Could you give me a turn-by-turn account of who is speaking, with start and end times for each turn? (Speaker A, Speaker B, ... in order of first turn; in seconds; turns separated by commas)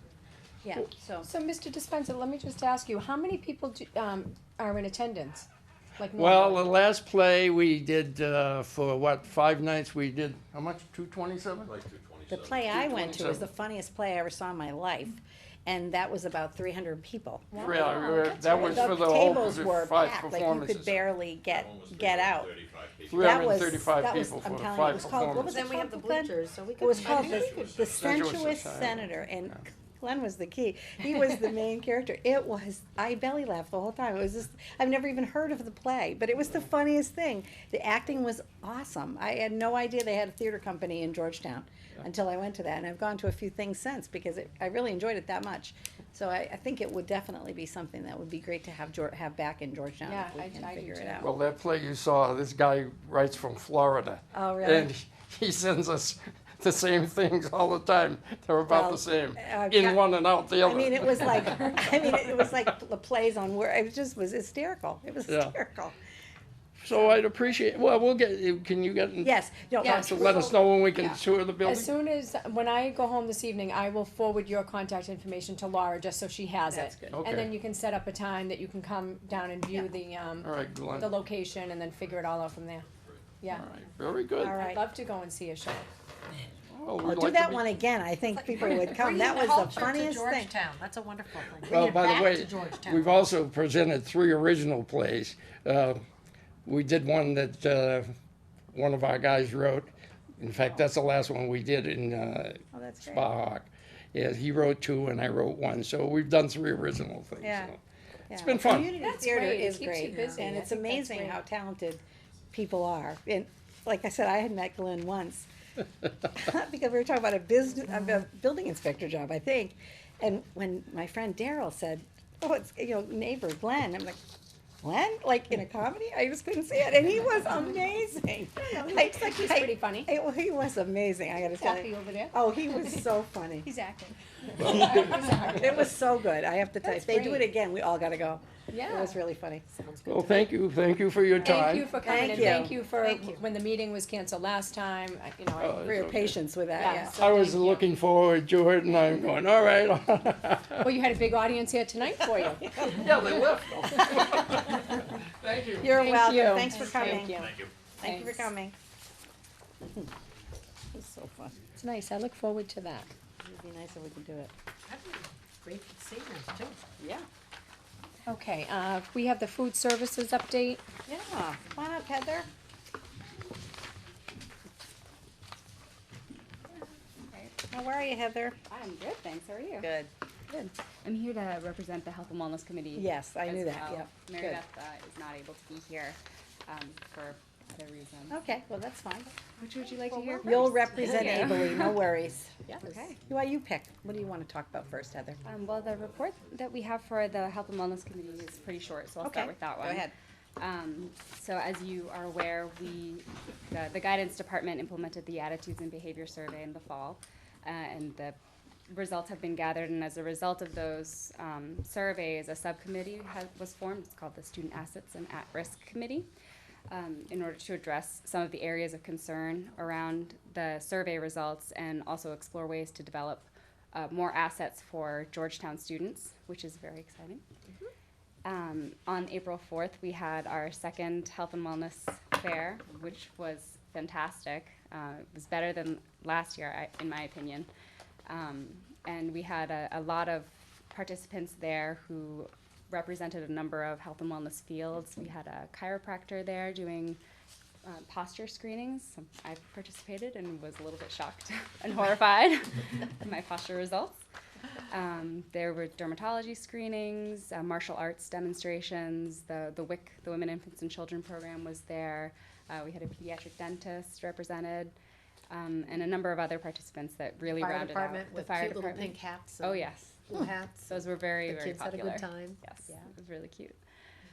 Speaker A: 0.6-1.3, Speaker B: 1.2-6.7, Speaker C: 6.1-11.7, Speaker D: 11.7-12.8, Speaker A: 12.3-17.6, Speaker C: 12.7-13.4, Speaker B: 17.5-18.9, Speaker C: 17.6-20.9, Speaker A: 18.5-22.5, Speaker D: 20.9-23.7, Speaker C: 23.1-25.6, Speaker A: 23.1-51.3, Speaker E: 25.5-27.8, Speaker D: 26.8-28.5, Speaker C: 27.8-29.6, Speaker B: 50.0-51.3, Speaker C: 51.2-61.9, Speaker A: 54.3-54.9, Speaker A: 58.7-60.0, Speaker A: 60.6-65.9, Speaker C: 65.3-65.5, Speaker C: 66.8-71.9, Speaker A: 69.2-71.2, Speaker B: 69.8-70.4, Speaker B: 71.6-82.9, Speaker A: 76.7-77.2, Speaker C: 77.1-77.5, Speaker C: 80.4-81.2, Speaker B: 83.4-83.7, Speaker C: 83.5-84.6, Speaker A: 84.4-84.8, Speaker B: 84.5-85.9, Speaker C: 86.7-87.8, Speaker A: 87.0-90.5, Speaker B: 88.3-89.7, Speaker E: 89.4-93.2, Speaker C: 91.6-96.0, Speaker C: 96.7-98.1, Speaker C: 98.7-109.0, Speaker A: 102.7-103.3, Speaker A: 107.4-107.7, Speaker A: 108.3-115.5, Speaker B: 109.0-111.4, Speaker A: 116.3-124.2, Speaker A: 124.8-133.7, Speaker B: 128.6-130.1, Speaker B: 131.5-133.1, Speaker B: 133.6-135.8, Speaker C: 134.6-135.2, Speaker A: 134.6-139.6, Speaker B: 136.8-137.5, Speaker B: 138.7-139.2, Speaker E: 139.8-140.4, Speaker C: 140.1-141.9, Speaker B: 141.4-145.9, Speaker A: 141.5-143.4, Speaker C: 145.6-146.4, Speaker A: 145.8-147.2, Speaker B: 146.8-147.8, Speaker C: 147.2-150.9, Speaker B: 150.8-152.9, Speaker C: 152.7-156.0, Speaker A: 155.8-158.8, Speaker B: 155.9-158.5, Speaker A: 159.8-160.1, Speaker A: 160.9-161.6, Speaker B: 161.7-163.1, Speaker A: 163.4-164.5, Speaker E: 164.9-166.8, Speaker A: 167.0-167.2, Speaker B: 168.2-170.8, Speaker A: 171.1-172.5, Speaker A: 177.6-178.6, Speaker F: 178.7-179.9, Speaker A: 179.8-180.1, Speaker F: 180.5-188.4, Speaker A: 182.9-184.6, Speaker A: 188.3-189.3, Speaker F: 189.6-192.0, Speaker A: 190.4-195.4, Speaker F: 192.8-193.2, Speaker F: 195.4-208.4, Speaker A: 199.2-200.1, Speaker F: 208.9-216.3, Speaker F: 216.9-227.4, Speaker F: 228.4-237.7, Speaker F: 238.2-247.2, Speaker F: 247.8-254.2, Speaker F: 254.9-264.9, Speaker F: 265.5-273.8, Speaker E: 267.6-270.9, Speaker E: 271.5-272.6